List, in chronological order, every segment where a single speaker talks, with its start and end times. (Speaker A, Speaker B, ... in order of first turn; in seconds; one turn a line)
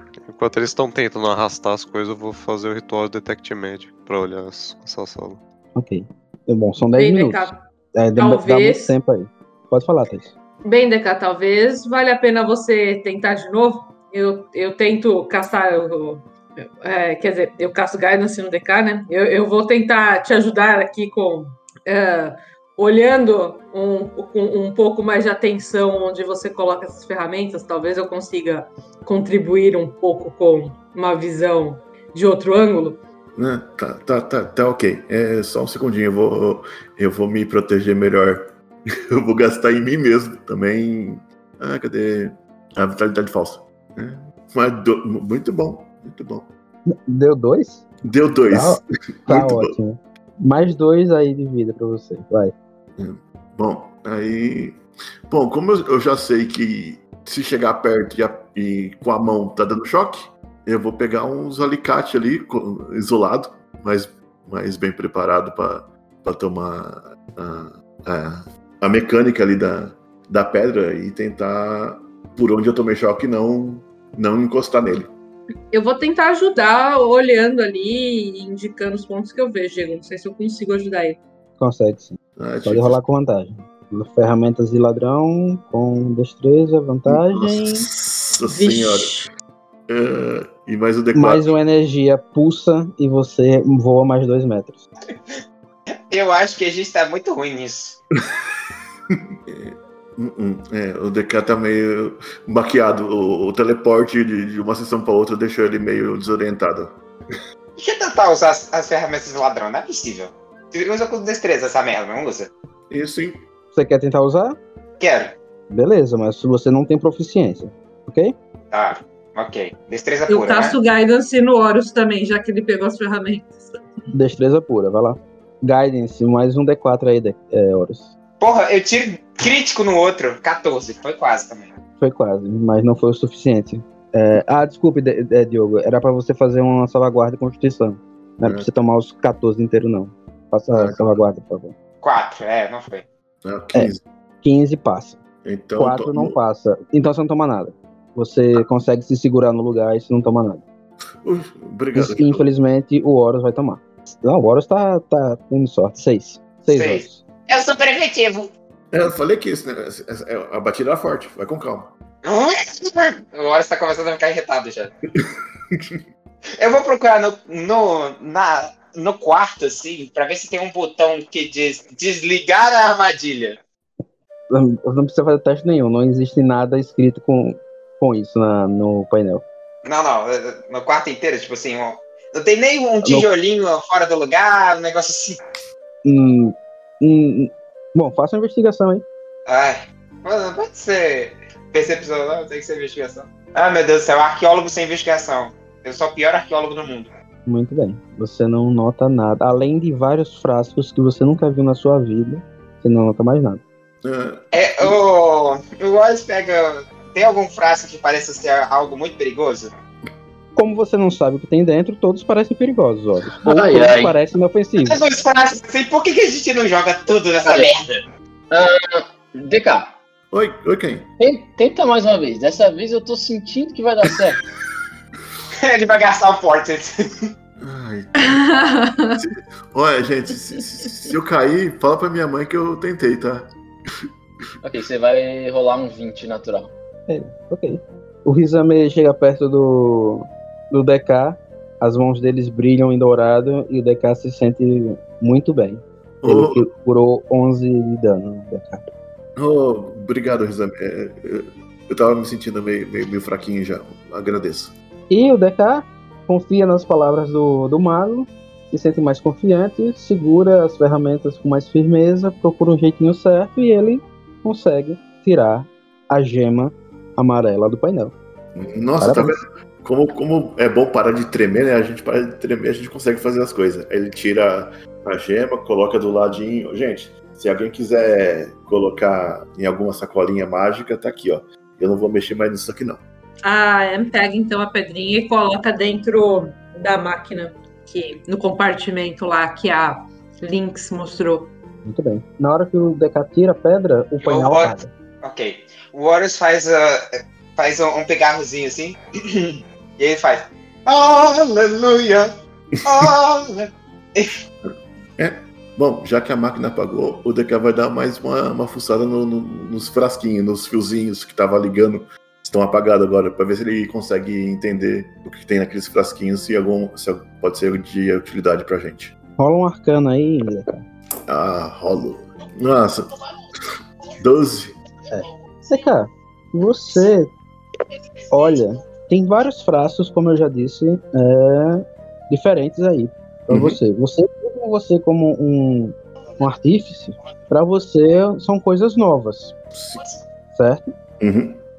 Speaker A: 0.2-5.4
Speaker B: 5.7-10.3
Speaker C: 7.0-7.6
Speaker C: 8.2-8.9
Speaker C: 10.6-33.0
Speaker D: 33.4-46.5
Speaker B: 46.9-47.8
Speaker D: 48.0-49.8
Speaker B: 48.5-52.5
Speaker D: 53.0-75.1
Speaker C: 75.7-81.2
Speaker B: 81.6-87.9
Speaker D: 82.4-83.0
Speaker D: 87.1-89.3
Speaker C: 88.5-89.2
Speaker D: 89.9-91.5
Speaker B: 91.1-94.8
Speaker E: 96.1-98.0
Speaker D: 99.1-107.0
Speaker E: 107.8-112.5
Speaker D: 112.9-113.4
Speaker B: 113.7-114.6
Speaker E: 115.0-115.3
Speaker B: 115.7-118.3
Speaker E: 118.7-120.8
Speaker C: 120.3-123.8
Speaker B: 124.1-128.1
Speaker E: 128.4-131.7
Speaker B: 132.0-141.7
Speaker D: 138.4-138.7
Speaker D: 140.7-141.2
Speaker E: 142.0-143.1
Speaker D: 143.4-144.0
Speaker B: 143.7-145.2
Speaker D: 145.4-146.4
Speaker B: 145.8-150.6
Speaker D: 151.2-152.4
Speaker B: 151.9-157.2
Speaker E: 156.7-158.5
Speaker D: 158.9-161.9
Speaker E: 162.2-164.9
Speaker D: 165.2-166.0
Speaker E: 166.6-173.6
Speaker B: 174.5-179.4
Speaker E: 179.8-185.4
Speaker B: 183.0-183.3
Speaker B: 186.0-189.0
Speaker E: 189.4-197.1
Speaker B: 197.4-203.6
Speaker D: 204.0-205.0
Speaker E: 204.5-209.7
Speaker B: 210.5-215.0
Speaker F: 213.3-214.2
Speaker E: 214.8-217.9
Speaker F: 217.4-217.7
Speaker F: 218.5-219.9
Speaker D: 220.3-221.1
Speaker F: 221.2-224.4
Speaker E: 225.6-227.3
Speaker D: 227.6-228.4
Speaker C: 228.2-229.2
Speaker D: 229.1-234.1
Speaker F: 234.6-236.7
Speaker B: 237.1-248.8
Speaker D: 246.2-246.7
Speaker D: 249.3-254.7
Speaker B: 255.1-268.1
Speaker D: 268.5-283.0
Speaker B: 269.0-269.4
Speaker C: 283.4-291.5
Speaker B: 291.8-294.9
Speaker E: 294.2-302.3
Speaker E: 302.8-304.3
Speaker D: 304.6-319.1
Speaker B: 319.4-320.8
Speaker D: 321.3-323.1
Speaker D: 324.2-324.8
Speaker B: 325.1-327.3
Speaker B: 328.3-339.5
Speaker D: 333.5-333.8
Speaker D: 339.7-340.0
Speaker B: 340.5-340.9
Speaker D: 341.2-341.6